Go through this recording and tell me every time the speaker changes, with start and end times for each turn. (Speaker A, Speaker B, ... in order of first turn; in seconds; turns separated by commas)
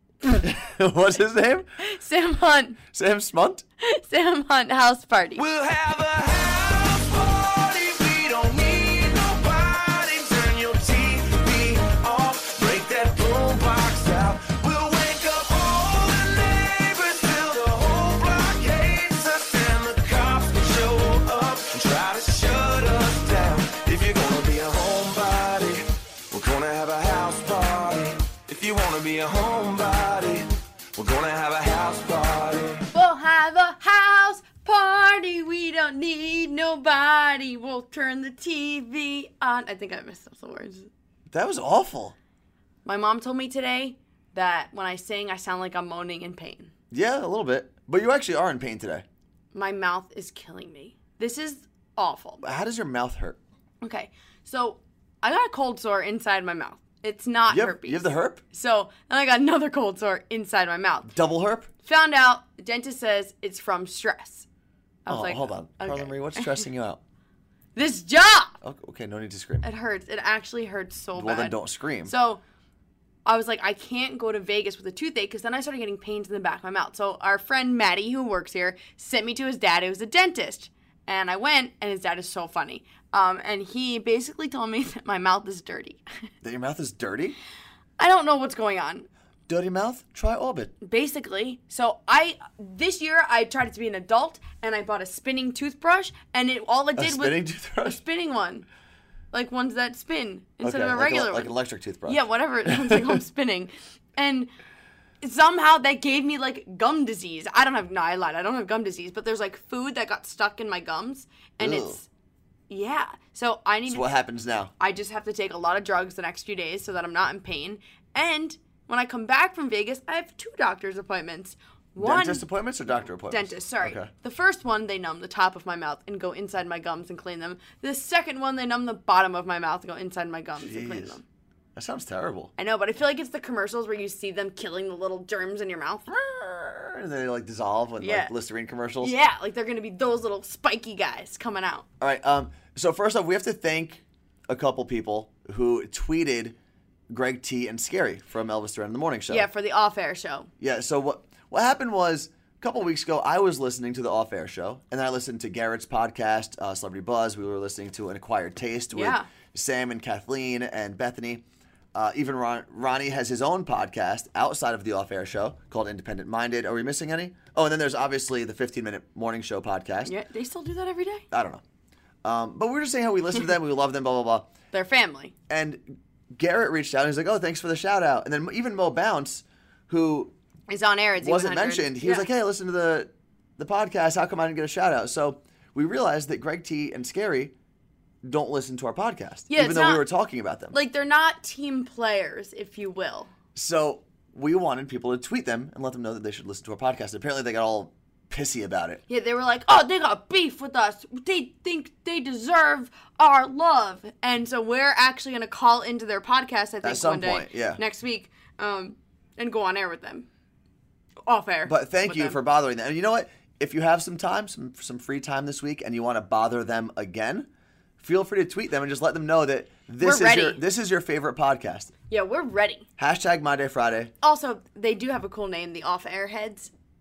Speaker A: 0.2-1.7, Speaker B: 1.8-2.8, Speaker A: 2.9-3.6, Speaker B: 3.8-5.4, Speaker C: 5.4-32.9, Speaker B: 32.9-40.9, Speaker A: 41.3-42.2, Speaker B: 42.9-46.7, Speaker A: 46.9-49.0, Speaker B: 49.5-52.4, Speaker A: 52.4-53.4, Speaker B: 53.8-61.1, Speaker A: 57.5-58.4, Speaker A: 61.1-61.7, Speaker B: 61.8-64.5, Speaker B: 65.1-66.6, Speaker A: 65.1-67.0, Speaker B: 67.8-68.6, Speaker A: 68.6-69.7, Speaker B: 69.6-72.4, Speaker A: 71.2-72.1, Speaker B: 73.3-86.0, Speaker A: 86.4-87.4, Speaker B: 88.0-89.1, Speaker A: 89.5-90.7, Speaker B: 90.8-98.7, Speaker A: 97.0-98.0, Speaker B: 99.3-101.5, Speaker A: 100.6-103.2, Speaker B: 102.1-104.5, Speaker B: 105.2-112.1, Speaker A: 111.6-112.0, Speaker B: 112.7-114.1, Speaker A: 113.9-114.7, Speaker B: 114.8-122.5, Speaker A: 122.0-124.1, Speaker B: 123.3-131.2, Speaker A: 130.6-131.2, Speaker A: 131.8-132.5, Speaker B: 132.6-136.1, Speaker A: 136.1-139.1, Speaker B: 138.0-138.3, Speaker B: 139.0-141.9, Speaker A: 142.0-146.6, Speaker A: 147.1-149.5, Speaker B: 149.3-150.5, Speaker A: 150.6-170.1, Speaker B: 158.9-159.3, Speaker B: 170.1-171.2, Speaker A: 171.3-171.6, Speaker A: 172.2-174.5, Speaker B: 174.7-175.3, Speaker A: 175.5-180.3, Speaker B: 180.7-182.3, Speaker A: 181.2-187.5, Speaker A: 188.2-190.8, Speaker B: 189.5-190.1, Speaker B: 190.7-193.3, Speaker A: 193.6-199.0, Speaker B: 199.1-210.3, Speaker A: 206.8-207.8, Speaker B: 211.3-212.4, Speaker A: 211.7-217.5, Speaker A: 218.0-221.9, Speaker B: 220.0-220.6, Speaker B: 222.1-222.9, Speaker A: 223.0-224.1, Speaker B: 224.2-226.7